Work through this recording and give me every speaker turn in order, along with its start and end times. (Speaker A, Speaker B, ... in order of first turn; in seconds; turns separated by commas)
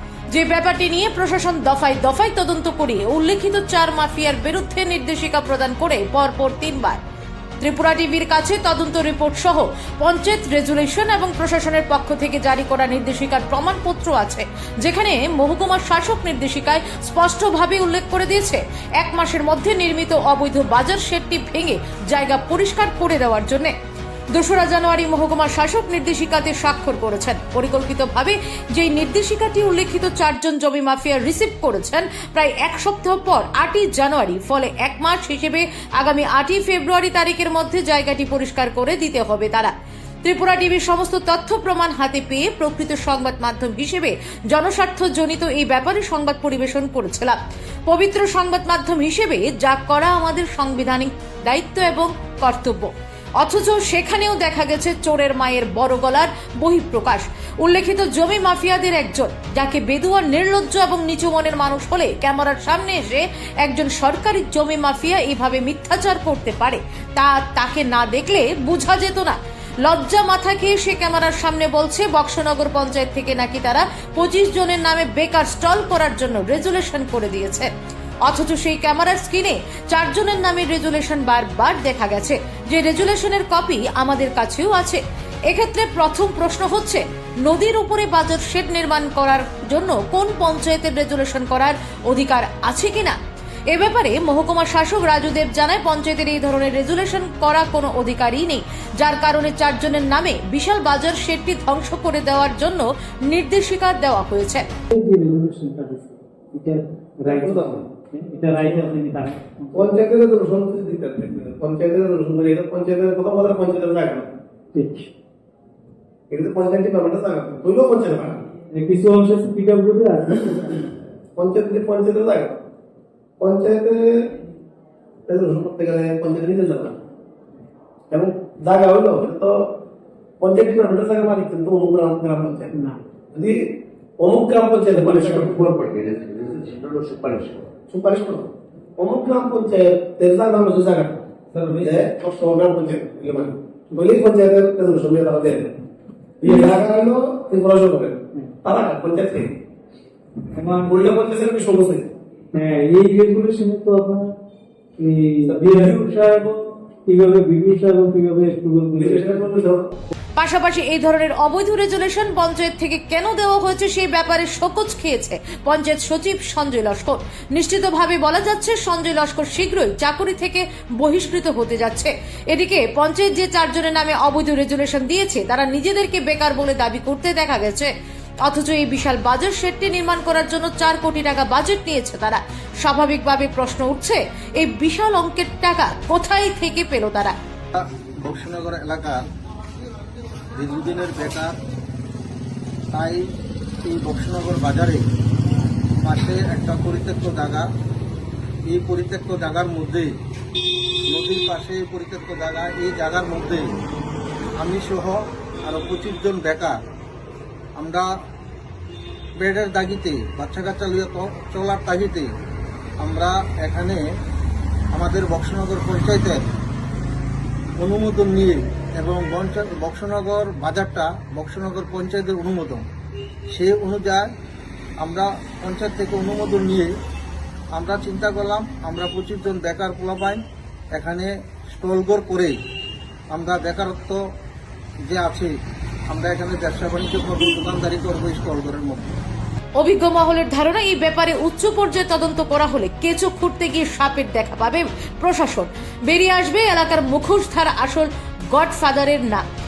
Speaker A: 0.3-7.0, Speaker A: 7.6-23.7, Speaker A: 24.3-39.7, Speaker A: 40.2-77.7, Speaker A: 78.2-93.2, Speaker A: 93.7-104.7, Speaker B: 104.9-109.9, Speaker C: 107.2-107.8, Speaker C: 108.6-108.9, Speaker C: 109.7-114.3, Speaker B: 114.7-115.1, Speaker C: 116.3-118.4, Speaker B: 118.7-120.8, Speaker C: 121.4-122.6, Speaker C: 123.4-124.3, Speaker C: 125.3-127.0, Speaker C: 128.1-129.7, Speaker C: 130.4-132.7, Speaker B: 132.7-133.0, Speaker C: 133.3-135.8, Speaker D: 135.0-137.7, Speaker C: 137.9-141.2, Speaker C: 141.8-145.7, Speaker B: 146.4-146.8, Speaker C: 146.4-149.5, Speaker B: 150.5-151.1, Speaker C: 150.8-152.1, Speaker B: 152.5-154.3, Speaker B: 155.0-159.2, Speaker C: 155.4-156.0, Speaker C: 159.0-159.9, Speaker A: 160.4-177.9, Speaker A: 178.4-187.3, Speaker E: 187.7-189.2, Speaker E: 190.5-191.6, Speaker E: 192.9-193.2, Speaker E: 193.8-195.1, Speaker E: 196.0-197.7, Speaker E: 198.7-200.1, Speaker E: 201.1-203.7, Speaker E: 204.6-206.8, Speaker E: 207.8-208.1, Speaker E: 209.4-212.3, Speaker E: 213.0-214.0, Speaker E: 214.9-216.4, Speaker E: 217.8-222.8, Speaker E: 223.5-224.3, Speaker E: 225.0-226.9, Speaker E: 227.7-230.4, Speaker E: 230.9-232.6, Speaker E: 233.3-234.2, Speaker E: 235.0-235.5, Speaker E: 236.1-239.2, Speaker A: 239.8-249.4